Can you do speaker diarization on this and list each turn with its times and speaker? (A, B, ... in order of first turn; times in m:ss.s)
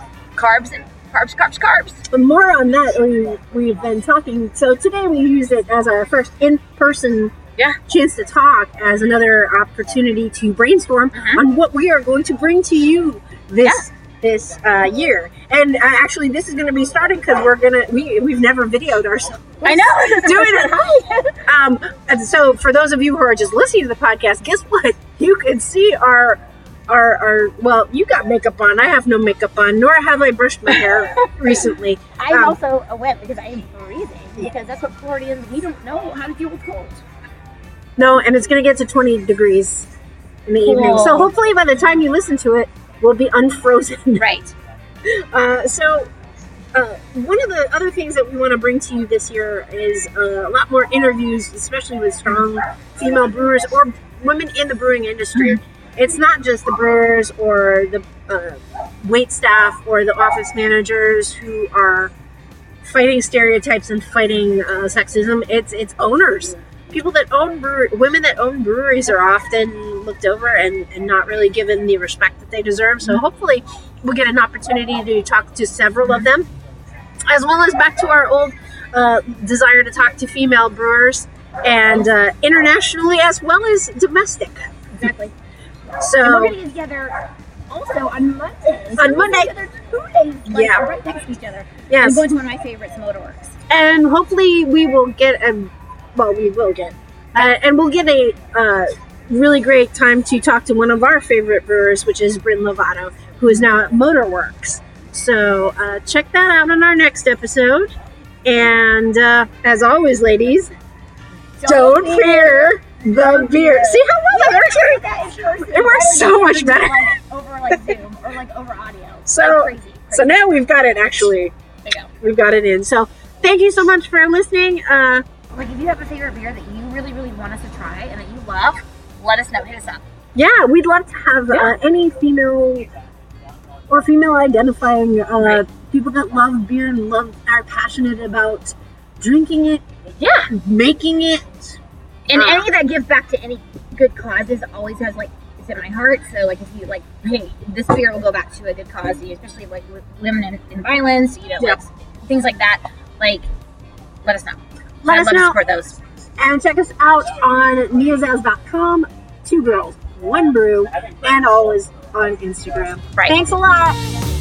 0:00.3-0:02.0 A
0:02.1-0:07.3 B
0:07.9-0:32.6 B
0:11.1-0:11.4 A
0:19.6-0:21.4 A
0:32.2-0:37.0 A
0:38.0-0:39.9 B
0:40.5-0:44.2 B
0:40.6-0:41.3 A
0:44.2-0:44.5 A
0:45.0-0:46.1 B
0:46.7-1:02.1 B
1:02.8-1:16.5 B
1:17.3-1:24.6 B
1:24.9-1:25.3 A
1:26.0-1:26.6 B
1:26.2-1:27.1 A
1:27.7-1:33.5 A
1:29.0-1:29.6 B
1:30.5-1:30.9 B
1:31.9-1:32.3 B
1:33.7-1:47.9 B
1:48.4-1:50.7 B
1:51.6-2:00.3 A
1:51.6-1:55.0 B
1:55.6-1:57.1 B
1:59.3-2:01.5 B
2:01.8-2:02.1 A
2:02.2-2:05.2 B
2:05.5-2:10.0 A
2:10.3-2:12.9 B
2:13.9-2:21.8 B
2:20.2-2:20.5 A
2:22.3-2:33.5 A
2:22.3-2:22.7 B
2:34.2-2:36.0 A
2:35.0-2:35.6 B
2:36.4-2:44.0 B
2:43.2-2:43.4 A